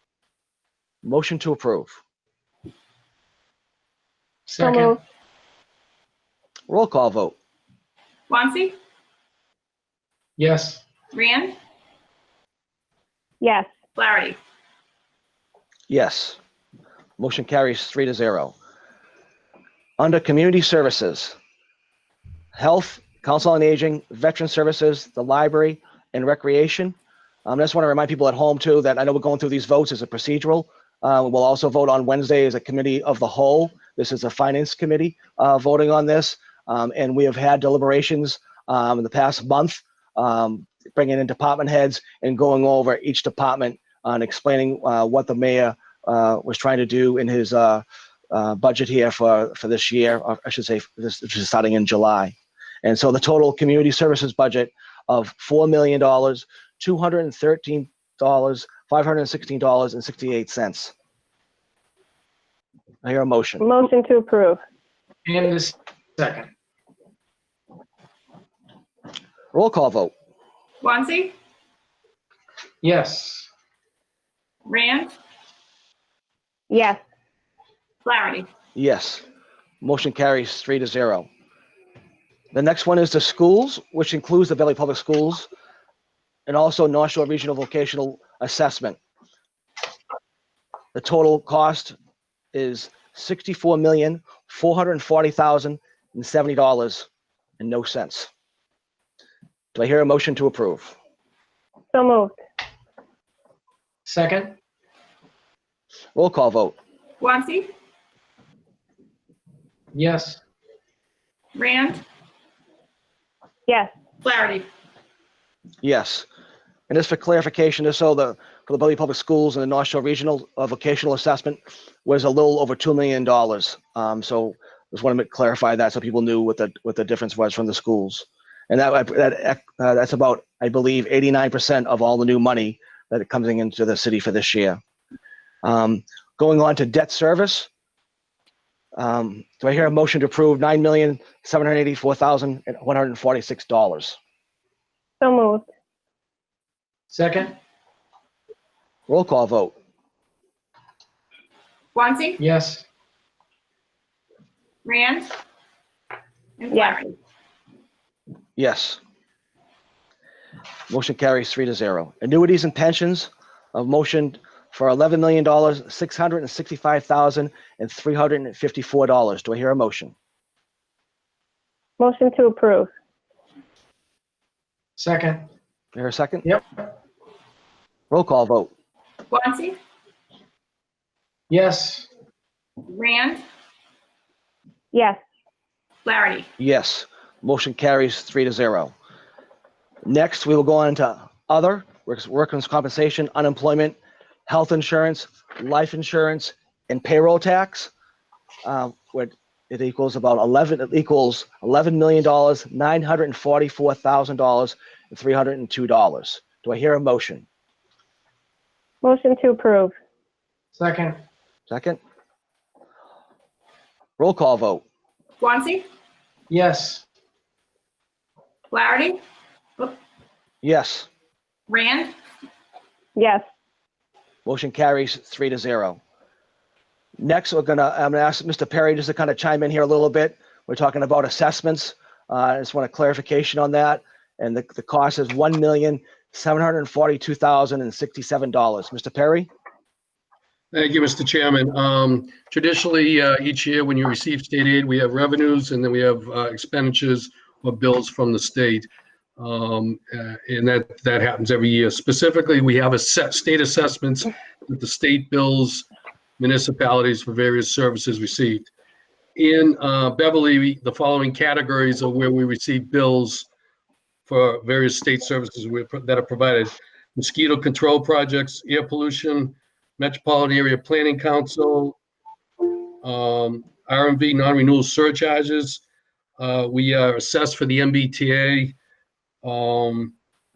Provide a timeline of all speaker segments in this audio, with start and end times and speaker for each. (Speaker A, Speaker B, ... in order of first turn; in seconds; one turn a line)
Speaker A: 1.0-2.0
Speaker B: 4.5-4.9
Speaker C: 4.6-5.0
Speaker A: 6.7-7.3
Speaker D: 8.3-8.8
Speaker B: 10.4-10.8
Speaker D: 11.1-11.6
Speaker C: 13.4-13.7
Speaker D: 13.9-14.4
Speaker A: 15.9-16.4
Speaker A: 17.2-18.5
Speaker A: 20.0-21.4
Speaker A: 22.5-60.9
Speaker A: 63.0-63.6
Speaker C: 63.6-64.6
Speaker B: 65.2-66.5
Speaker A: 69.5-70.1
Speaker D: 70.8-71.3
Speaker B: 72.8-73.5
Speaker D: 74.7-75.1
Speaker C: 76.7-77.0
Speaker D: 78.0-78.5
Speaker A: 78.7-79.2
Speaker A: 79.8-81.3
Speaker A: 82.5-85.5
Speaker A: 86.5-89.0
Speaker A: 90.9-92.0
Speaker A: 92.5-97.1
Speaker A: 97.6-98.3
Speaker A: 99.7-101.0
Speaker C: 101.9-102.4
Speaker B: 104.0-104.5
Speaker A: 106.1-106.8
Speaker D: 107.2-107.7
Speaker B: 109.9-110.4
Speaker D: 111.5-112.0
Speaker C: 113.7-113.9
Speaker D: 114.2-114.7
Speaker A: 115.8-116.2
Speaker A: 116.9-134.8
Speaker A: 135.6-137.7
Speaker A: 139.0-144.2
Speaker C: 145.2-145.7
Speaker B: 147.1-147.5
Speaker A: 149.1-149.8
Speaker D: 151.9-152.4
Speaker B: 152.4-152.8
Speaker D: 154.8-155.3
Speaker D: 156.6-157.1
Speaker A: 158.6-159.0
Speaker A: 160.9-170.1
Speaker C: 172.0-172.9
Speaker B: 175.0-175.4
Speaker A: 175.9-176.5
Speaker A: 178.1-178.7
Speaker D: 179.3-179.8
Speaker B: 181.5-182.1
Speaker D: 182.9-183.4
Speaker C: 184.9-185.2
Speaker D: 186.0-186.5
Speaker A: 186.6-188.9
Speaker A: 190.0-197.9
Speaker A: 198.6-207.4
Speaker C: 209.0-209.9
Speaker B: 210.7-211.2
Speaker A: 211.7-212.0
Speaker A: 214.2-214.8
Speaker D: 215.4-215.8
Speaker B: 216.5-217.0
Speaker D: 218.7-219.2
Speaker A: 220.6-221.1
Speaker D: 221.7-222.1
Speaker C: 223.2-223.4
Speaker A: 224.4-226.0
Speaker A: 227.2-239.5
Speaker E: 240.7-255.8
Speaker E: 256.4-258.7
Speaker E: 259.4-263.5
Speaker E: 264.2-272.0
Speaker E: 273.0-275.8
Speaker E: 276.4-278.8
Speaker E: 279.4-280.1